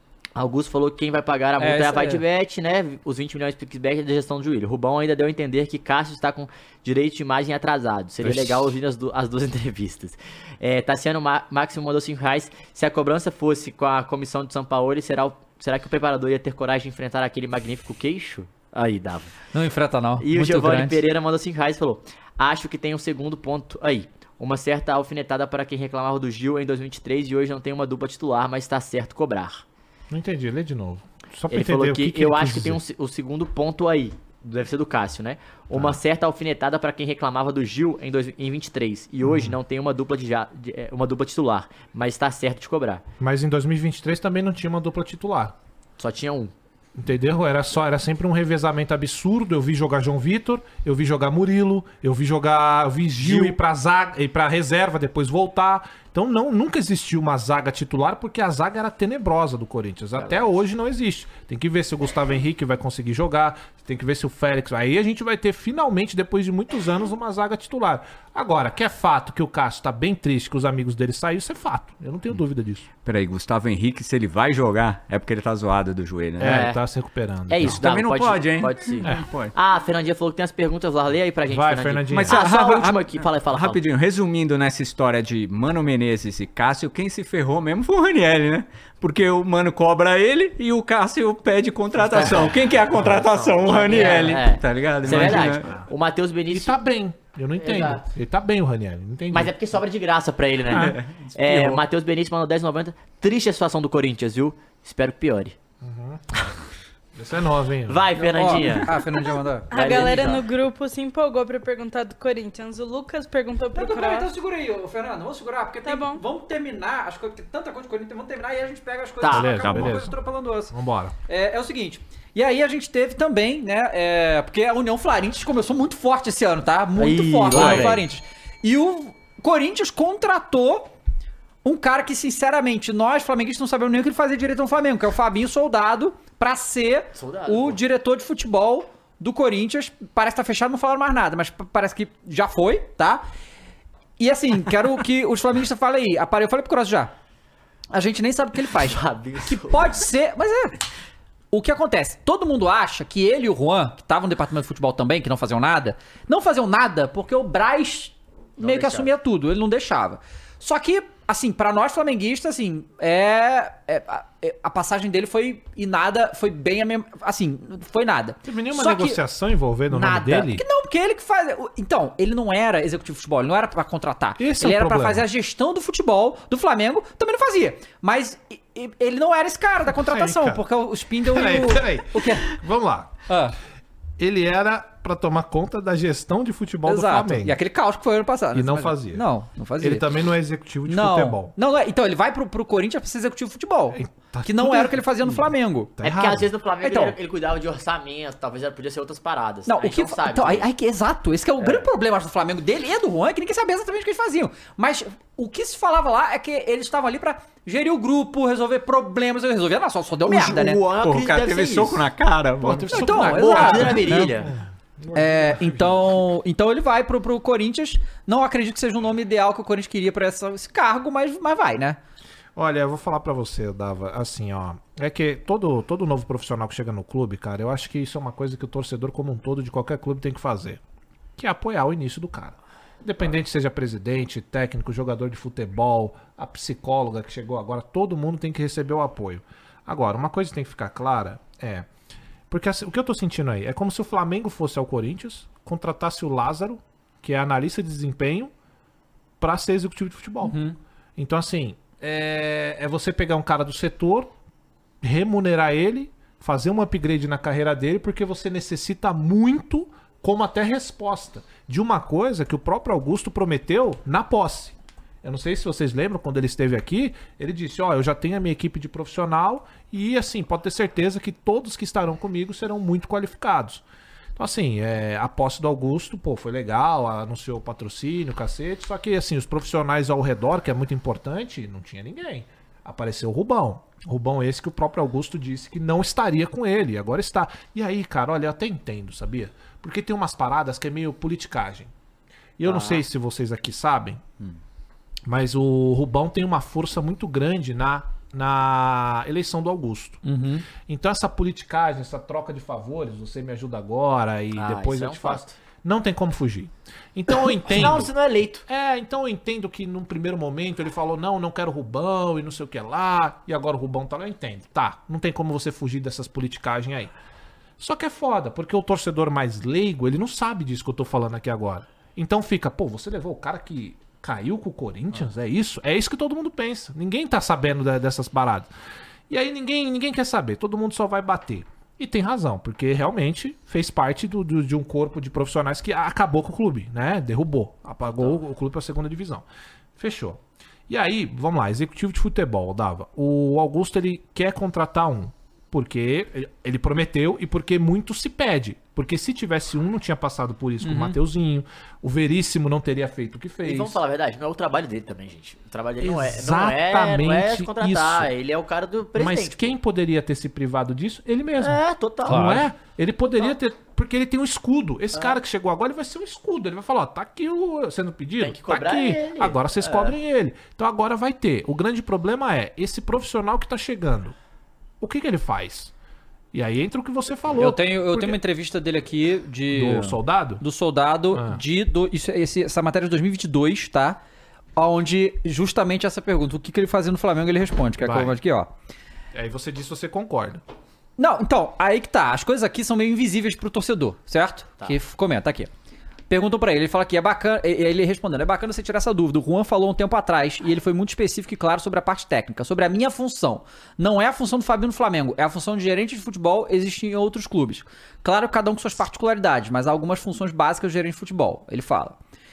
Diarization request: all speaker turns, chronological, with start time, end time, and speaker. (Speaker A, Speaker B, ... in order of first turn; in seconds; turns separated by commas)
Speaker A: 0.4-19.4, Speaker B: 1.6-2.2, Speaker B: 19.5-21.0, Speaker A: 20.2-29.6, Speaker C: 30.1-32.8, Speaker A: 31.5-43.0, Speaker C: 35.7-36.0, Speaker C: 39.2-39.6, Speaker C: 43.2-45.5, Speaker A: 46.0-46.5, Speaker C: 47.0-72.9, Speaker A: 53.2-53.5, Speaker A: 60.2-60.4, Speaker D: 73.0-76.7, Speaker C: 76.4-77.8, Speaker A: 76.4-76.8, Speaker A: 77.5-83.8, Speaker D: 77.6-79.5, Speaker C: 81.5-82.4, Speaker D: 82.1-95.7, Speaker C: 92.0-92.4, Speaker A: 92.1-92.5, Speaker A: 93.1-96.7, Speaker C: 95.0-95.9, Speaker C: 96.5-99.5, Speaker A: 97.6-98.1, Speaker A: 99.3-105.6, Speaker C: 100.7-101.0, Speaker D: 100.7-101.8, Speaker C: 105.8-106.4, Speaker C: 107.2-108.1, Speaker A: 107.9-109.0, Speaker B: 108.3-109.7, Speaker E: 109.7-114.3, Speaker A: 109.7-110.5, Speaker B: 113.7-120.7, Speaker E: 115.8-116.2, Speaker A: 119.2-119.6, Speaker C: 119.3-120.2, Speaker D: 119.6-120.0, Speaker C: 120.7-121.2, Speaker B: 121.3-130.9, Speaker A: 127.0-128.0, Speaker D: 127.6-127.8, Speaker C: 127.6-127.9, Speaker B: 131.7-143.2, Speaker A: 137.1-137.8, Speaker B: 144.2-147.1, Speaker B: 147.9-150.8, Speaker A: 148.7-150.1, Speaker B: 151.5-169.2, Speaker A: 158.6-159.1, Speaker C: 168.4-170.7, Speaker B: 169.9-182.6, Speaker C: 174.4-175.2, Speaker C: 179.9-180.7, Speaker C: 181.2-183.2, Speaker B: 183.3-183.6, Speaker C: 184.2-187.6, Speaker B: 186.9-190.1, Speaker C: 188.5-189.3, Speaker C: 189.8-191.5, Speaker B: 190.9-195.9, Speaker C: 193.9-196.5, Speaker A: 196.0-200.7, Speaker B: 196.8-197.2, Speaker B: 199.7-210.8, Speaker A: 210.3-212.0, Speaker D: 211.0-213.1, Speaker C: 212.6-216.2, Speaker B: 212.9-214.4, Speaker A: 213.2-214.5, Speaker B: 215.1-222.0, Speaker C: 222.6-230.8, Speaker C: 231.4-241.9, Speaker C: 242.5-248.5, Speaker C: 249.4-250.6, Speaker B: 250.4-250.8, Speaker C: 251.2-254.3, Speaker C: 255.0-273.8, Speaker C: 274.4-291.9, Speaker C: 292.6-294.3, Speaker A: 292.6-293.0, Speaker C: 295.3-300.2, Speaker B: 300.2-300.7, Speaker C: 300.8-308.1, Speaker A: 304.6-305.6, Speaker A: 307.3-308.6, Speaker C: 308.7-317.1, Speaker C: 317.8-328.7, Speaker C: 329.3-339.5, Speaker C: 340.0-354.0, Speaker B: 350.8-351.2, Speaker A: 353.6-359.8, Speaker C: 356.0-358.3, Speaker C: 359.2-374.4, Speaker A: 361.6-362.6, Speaker B: 362.3-362.6, Speaker A: 368.4-370.1, Speaker C: 375.0-375.9, Speaker C: 376.5-378.4, Speaker B: 377.6-384.2, Speaker C: 379.7-380.6, Speaker C: 381.3-381.6, Speaker B: 384.8-388.7, Speaker C: 388.0-388.4, Speaker C: 389.3-390.6, Speaker B: 391.2-395.7, Speaker B: 396.3-412.2